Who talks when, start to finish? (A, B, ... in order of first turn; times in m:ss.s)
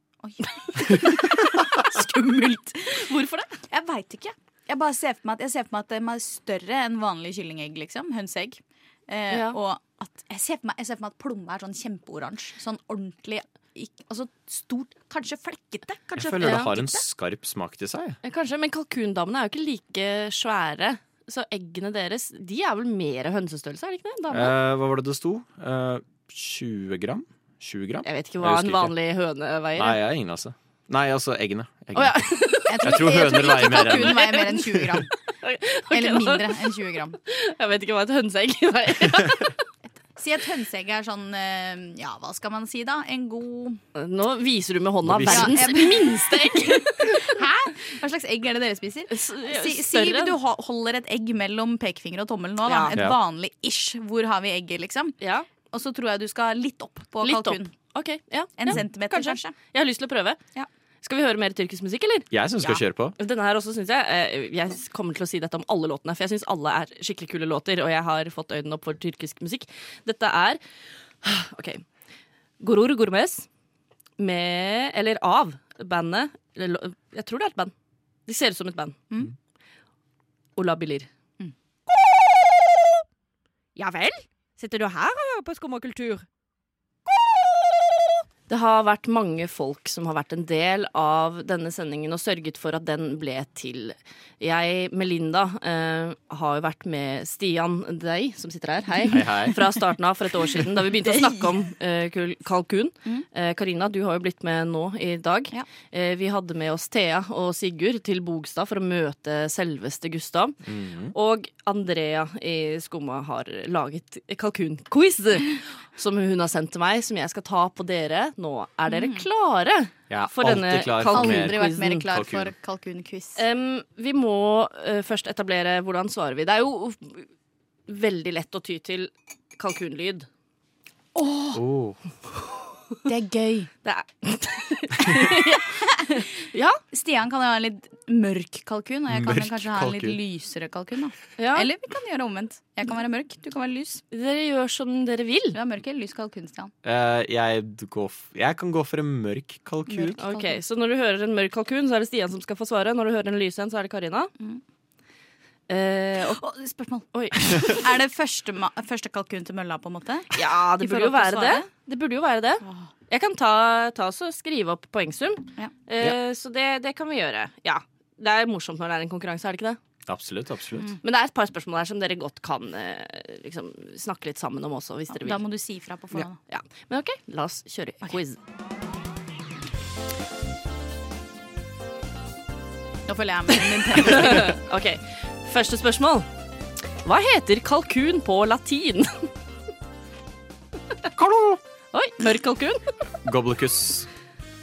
0:00.2-0:03.0 A
0:02.9-0:03.6 B
0:03.7-0:17.0 A
0:09.3-0:09.6 B
0:16.2-0:18.2 C
0:16.4-0:16.7 B
0:18.2-0:24.5 B
0:24.3-0:28.9 C
0:28.0-0:30.0 B
0:29.8-0:32.2 C
0:31.9-0:34.8 B
0:32.7-0:35.1 A
0:32.8-0:35.0 C
0:35.4-0:39.6 B
0:35.9-0:37.2 A
0:40.2-0:43.8 A
0:43.9-0:47.4 B
0:45.0-0:45.6 C
0:45.2-0:55.2 A
0:49.1-0:50.4 B
0:52.6-0:52.9 B
0:55.2-0:55.5 B
0:55.7-0:57.7 A
0:57.2-1:00.4 B
0:58.6-0:59.5 A
1:01.0-1:02.3 B
1:02.3-1:03.2 C
1:03.2-1:10.6 B
1:11.2-1:11.8 B
1:12.6-1:13.4 B
1:14.2-1:17.7 B
1:18.3-1:19.0 B
1:20.6-1:21.1 B
1:23.8-1:26.2 D
1:28.5-1:50.6 B
1:39.1-1:39.6 C
1:40.9-1:41.5 A
1:50.6-1:51.1 C
1:51.1-2:02.0 B
1:58.9-1:59.2 A
2:00.1-2:02.5 C
2:01.0-2:03.4 A
2:03.4-2:07.2 B
2:07.9-2:10.3 B
2:11.1-2:11.6 A
2:11.5-2:12.0 C
2:13.0-2:13.7 A
2:13.8-2:16.8 B
2:15.0-2:16.3 A
2:16.9-2:24.0 A
2:19.1-2:20.2 C
2:21.4-2:21.7 B
2:24.1-2:25.6 B
2:25.5-2:26.7 A
2:26.8-2:30.2 C
2:29.9-2:30.6 A
2:30.2-2:34.3 B
2:35.7-2:36.4 B
2:36.1-2:41.7 A
2:37.1-2:37.8 B
2:40.3-2:49.8 B
2:42.6-2:42.9 A
2:50.0-2:50.9 C
2:51.0-2:55.4 B
2:55.1-2:56.4 A
2:56.5-2:58.4 B
3:03.0-3:04.6 A
3:03.9-3:06.3 B
3:07.0-3:09.3 B
3:11.1-3:11.6 C
3:11.9-3:12.8 B
3:13.2-3:14.1 C